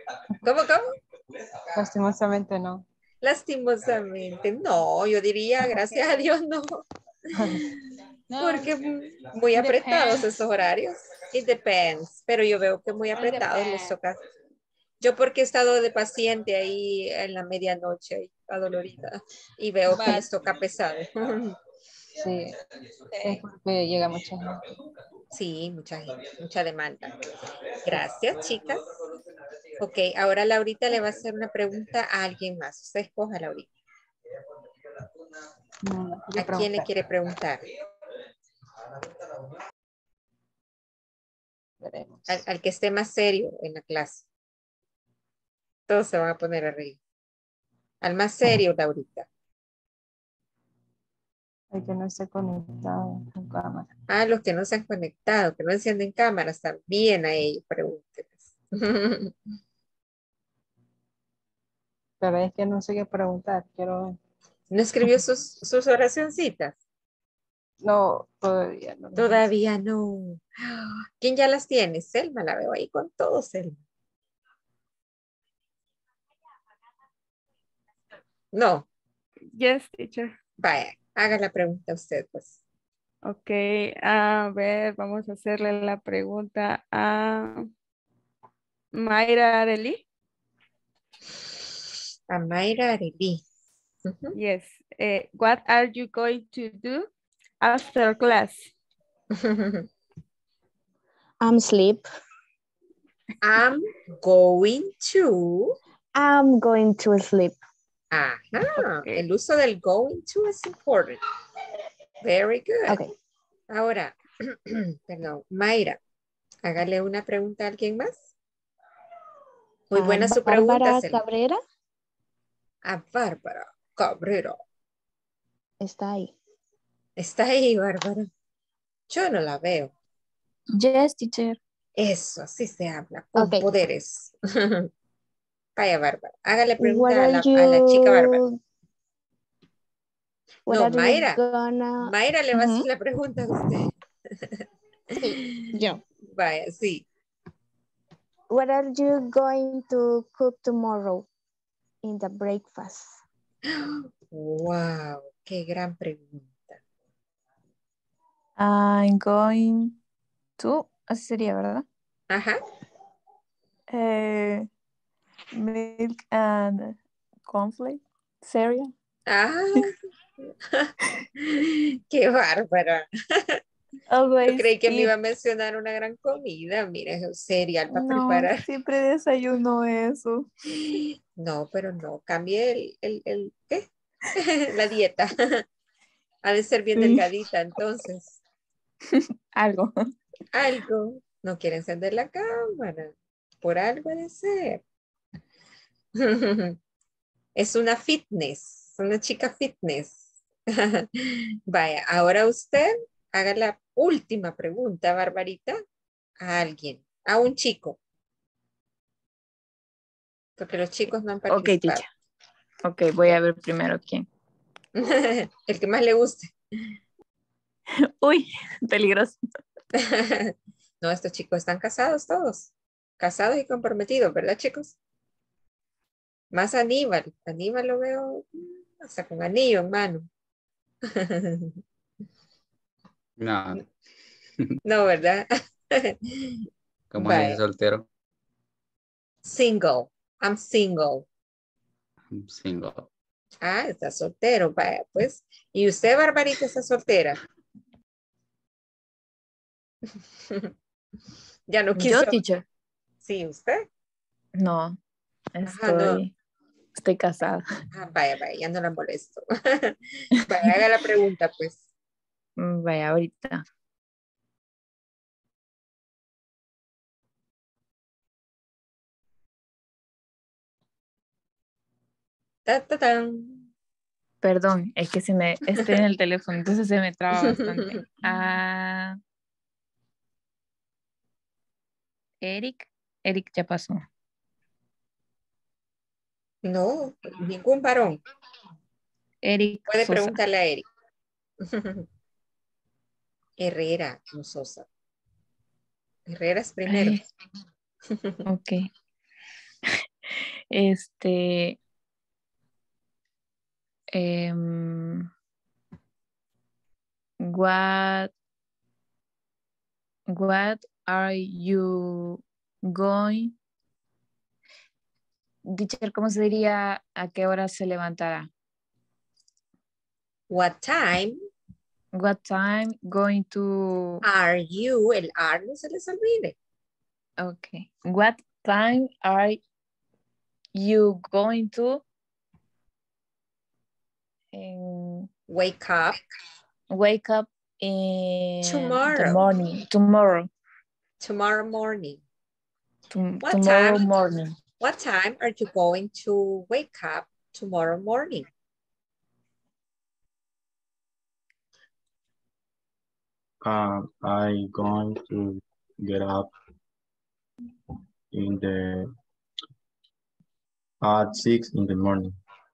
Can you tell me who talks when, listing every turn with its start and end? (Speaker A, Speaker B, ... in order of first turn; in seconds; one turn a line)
Speaker A: 0.4-0.9
Speaker B: 1.8-2.8
Speaker A: 3.2-6.8
Speaker B: 7.4-7.6
Speaker C: 8.3-8.8
Speaker A: 8.4-14.2
Speaker C: 9.5-10.3
Speaker C: 13.2-13.9
Speaker A: 15.0-21.6
Speaker C: 19.9-20.3
Speaker B: 22.2-22.6
Speaker C: 23.1-23.4
Speaker B: 23.2-24.7
Speaker A: 25.3-29.0
Speaker A: 29.8-33.7
Speaker B: 35.8-37.0
Speaker A: 36.4-37.7
Speaker B: 41.8-42.3
Speaker A: 42.3-44.3
Speaker A: 45.9-47.0
Speaker A: 48.0-49.3
Speaker B: 51.7-53.9
Speaker A: 54.1-59.3
Speaker B: 62.2-64.2
Speaker A: 64.7-66.8
Speaker B: 67.8-69.4
Speaker A: 69.2-73.8
Speaker A: 78.5-78.8
Speaker D: 79.5-80.3
Speaker A: 80.6-82.6
Speaker D: 83.3-87.7
Speaker D: 89.0-90.0
Speaker A: 92.3-93.4
Speaker A: 94.1-94.4
Speaker D: 94.3-97.1
Speaker D: 97.6-98.7
Speaker A: 99.3-99.9
Speaker E: 101.4-102.1
Speaker A: 103.4-105.8
Speaker E: 106.2-107.6
Speaker A: 108.1-111.2
Speaker A: 112.2-113.0
Speaker A: 113.7-116.0
Speaker A: 116.6-118.3
Speaker A: 119.9-121.2
Speaker E: 119.9-121.6
Speaker A: 122.8-124.6
Speaker E: 125.8-126.3
Speaker A: 127.2-128.3
Speaker A: 129.1-129.9
Speaker E: 130.8-131.6
Speaker A: 132.0-134.9
Speaker E: 133.4-133.7
Speaker A: 135.8-138.4
Speaker E: 136.8-138.5
Speaker E: 140.7-142.8
Speaker A: 140.7-141.4
Speaker A: 142.1-143.9
Speaker E: 145.1-146.0
Speaker A: 146.3-147.0
Speaker E: 148.5-151.2
Speaker E: 152.0-153.2
Speaker A: 153.8-156.8
Speaker F: 158.6-159.7
Speaker E: 159.0-159.8
Speaker E: 160.6-161.8
Speaker F: 161.1-161.8
Speaker A: 162.3-162.6
Speaker F: 163.9-164.6
Speaker F: 165.6-166.9
Speaker F: 167.5-168.9
Speaker E: 168.4-168.9
Speaker A: 169.3-169.9
Speaker A: 171.5-173.6
Speaker F: 174.1-174.7
Speaker A: 174.4-178.7
Speaker F: 178.0-180.4
Speaker E: 178.1-178.4
Speaker A: 180.9-183.9
Speaker A: 184.4-185.6
Speaker A: 186.4-188.4
Speaker F: 189.6-189.9
Speaker A: 190.5-193.1
Speaker A: 193.6-194.8
Speaker A: 196.2-196.8
Speaker A: 197.6-200.3
Speaker A: 200.8-205.8
Speaker A: 206.4-208.0
Speaker A: 210.6-212.1
Speaker F: 211.5-212.0
Speaker F: 212.8-214.3
Speaker A: 215.0-216.5
Speaker F: 218.2-219.4
Speaker A: 220.0-224.9
Speaker A: 226.5-230.3
Speaker A: 231.1-231.8
Speaker G: 233.4-233.8
Speaker A: 234.8-236.5
Speaker G: 237.1-238.1
Speaker A: 237.2-237.6
Speaker A: 239.4-241.2
Speaker G: 242.3-243.1
Speaker A: 243.6-247.4
Speaker A: 251.7-252.4
Speaker F: 252.0-252.6
Speaker A: 253.2-253.9
Speaker F: 254.6-255.0
Speaker F: 255.6-256.3
Speaker A: 255.7-256.2
Speaker F: 257.0-257.6
Speaker A: 257.9-261.9
Speaker F: 262.6-263.6
Speaker A: 272.7-273.7
Speaker F: 274.4-279.2
Speaker A: 277.5-277.8
Speaker F: 282.4-284.0
Speaker A: 286.6-288.2
Speaker F: 289.4-290.4
Speaker A: 289.9-290.8
Speaker A: 291.6-292.1
Speaker A: 293.6-294.9
Speaker A: 296.3-297.2
Speaker F: 296.9-297.2
Speaker F: 298.5-298.8
Speaker F: 300.7-301.8
Speaker F: 304.1-305.3
Speaker F: 307.5-308.3
Speaker F: 310.3-313.5
Speaker F: 315.8-318.5
Speaker A: 320.5-321.4
Speaker F: 322.2-324.2
Speaker A: 324.2-326.6
Speaker F: 327.4-329.6
Speaker F: 330.8-332.0
Speaker F: 334.5-335.3
Speaker A: 335.5-336.2
Speaker F: 336.9-340.5
Speaker A: 338.6-339.5
Speaker A: 341.2-342.2
Speaker F: 343.1-344.5
Speaker A: 343.4-344.3
Speaker A: 344.8-348.5
Speaker H: 353.6-356.5
Speaker H: 358.3-359.1
Speaker H: 361.0-362.3